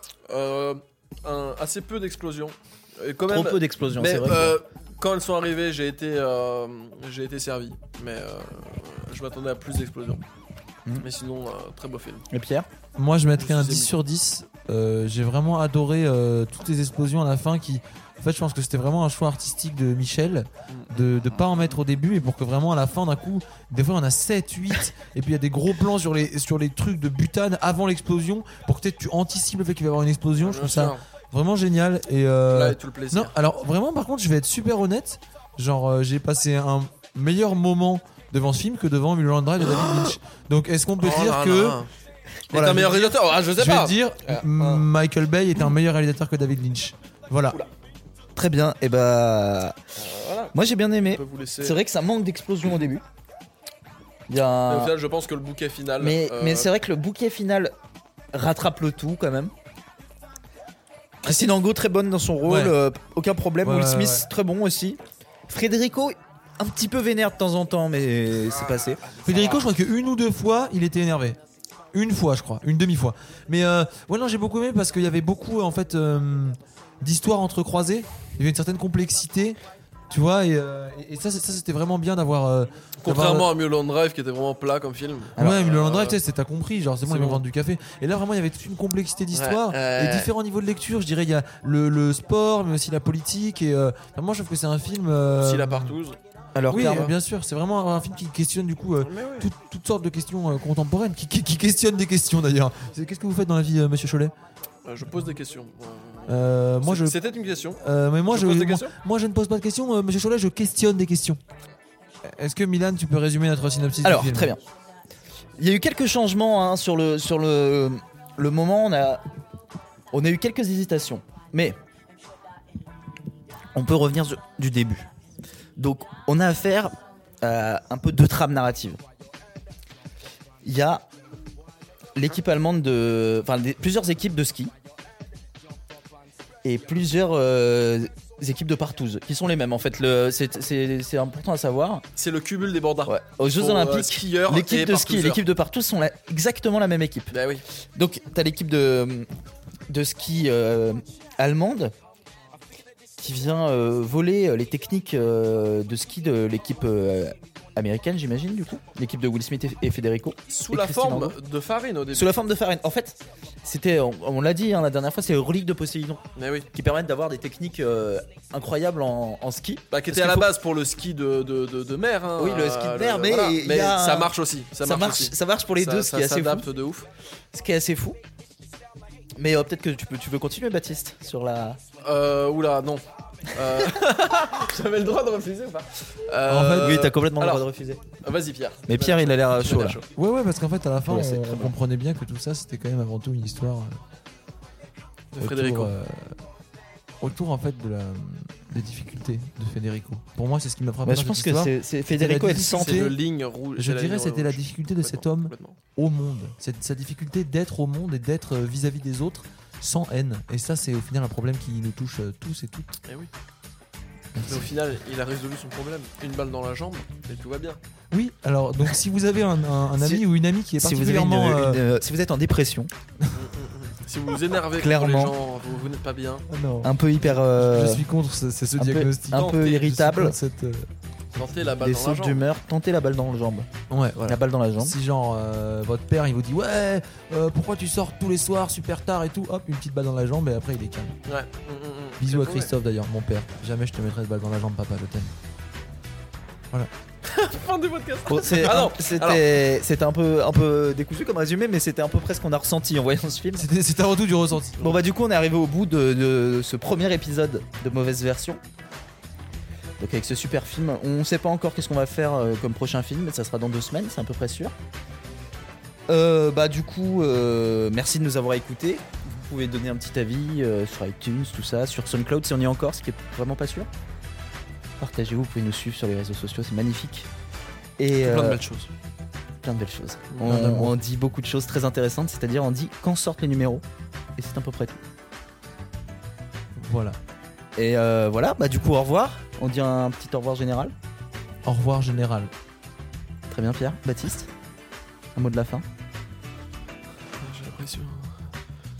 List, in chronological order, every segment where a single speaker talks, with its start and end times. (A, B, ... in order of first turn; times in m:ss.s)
0:00.3-0:10.2 A
0:03.2-0:04.6 B
0:11.0-0:12.2 A
0:12.3-0:12.7 B
0:13.0-0:41.8 C
0:13.4-0:13.9 A
0:30.4-0:31.0 A
0:32.5-0:33.4 A
0:39.6-0:40.2 A
0:41.0-0:41.9 A
0:42.5-0:44.9 A
0:42.5-0:47.6 C
0:48.4-0:49.8 B
0:50.0-0:50.6 A
0:50.5-0:53.0 B
0:51.1-0:51.8 A
0:54.3-0:55.0 B
0:54.7-0:56.7 A
0:56.0-0:57.7 B
0:58.3-0:59.5 B
1:01.2-1:09.0 B
1:02.4-1:02.8 C
1:03.6-1:04.3 C
1:09.2-1:11.4 C
1:09.3-1:09.6 A
1:11.9-1:19.6 C
1:20.1-1:23.5 C
1:23.0-1:26.2 A
1:25.4-1:25.6 B
1:25.4-1:36.0 C
1:27.0-1:27.4 A
1:29.3-1:30.3 A
1:35.4-1:37.1 A
1:36.6-1:37.1 B
1:36.7-1:44.3 C
1:39.0-1:39.5 A
1:44.8-1:48.9 A
1:46.3-1:47.2 C
1:47.8-1:51.4 C
1:52.3-1:54.6 C
1:54.0-1:54.6 B
1:55.6-1:59.2 B
2:00.1-2:01.8 B
2:03.7-2:05.1 B
2:05.8-2:09.0 B
2:10.6-2:11.0 B
2:12.1-2:14.7 B
2:16.6-2:22.0 B
2:22.2-2:25.4 A
2:23.0-2:27.4 B
2:27.3-2:27.6 A
2:27.9-2:29.3 B
2:29.9-2:31.9 B
2:33.2-2:41.4 B
2:40.5-2:42.4 A
2:42.1-2:50.6 B
2:46.4-2:46.7 A
2:49.9-2:57.1 A
2:52.4-2:56.7 B
2:57.5-2:58.2 B
2:59.4-3:01.8 B
3:02.0-3:07.6 A
3:06.5-3:07.0 C
3:06.7-3:08.0 B
3:08.2-3:10.0 A
3:08.9-3:10.0 B
3:10.1-3:14.0 C
3:11.1-3:11.7 B
3:15.3-3:15.9 A
3:15.4-3:16.4 C
3:17.2-3:23.2 C
3:21.0-3:23.1 B
3:22.7-3:25.8 A
3:23.7-3:33.0 C
3:33.0-3:33.3 A
3:34.3-3:34.7 C
3:34.4-3:37.8 A
3:38.1-3:41.8 C
3:40.0-3:42.9 B
3:43.4-3:46.5 A
3:44.7-3:45.4 B
3:46.5-3:51.7 C
3:46.8-3:48.1 B
3:48.8-3:50.4 B
3:49.3-3:49.9 A
3:51.4-3:52.4 A
3:51.8-3:53.7 B
3:53.9-4:01.2 C
3:54.2-3:55.0 B
4:01.3-4:02.7 A
4:02.2-4:05.3 C
4:07.2-4:09.4 A
4:08.3-4:13.7 B
4:13.6-4:14.9 C
4:14.8-4:18.6 B
4:20.0-4:24.7 B
4:26.1-4:33.9 B
4:35.0-4:37.3 B
4:38.0-4:38.6 B
4:38.2-4:38.8 A
4:38.3-4:38.8 C
4:39.6-4:43.8 B
4:40.3-4:40.9 C
4:44.4-4:45.0 B
4:46.8-4:47.2 C
4:47.8-4:50.9 B
4:51.6-4:52.5 C
4:53.5-4:54.5 B
4:55.4-4:55.8 B
4:57.4-4:58.3 A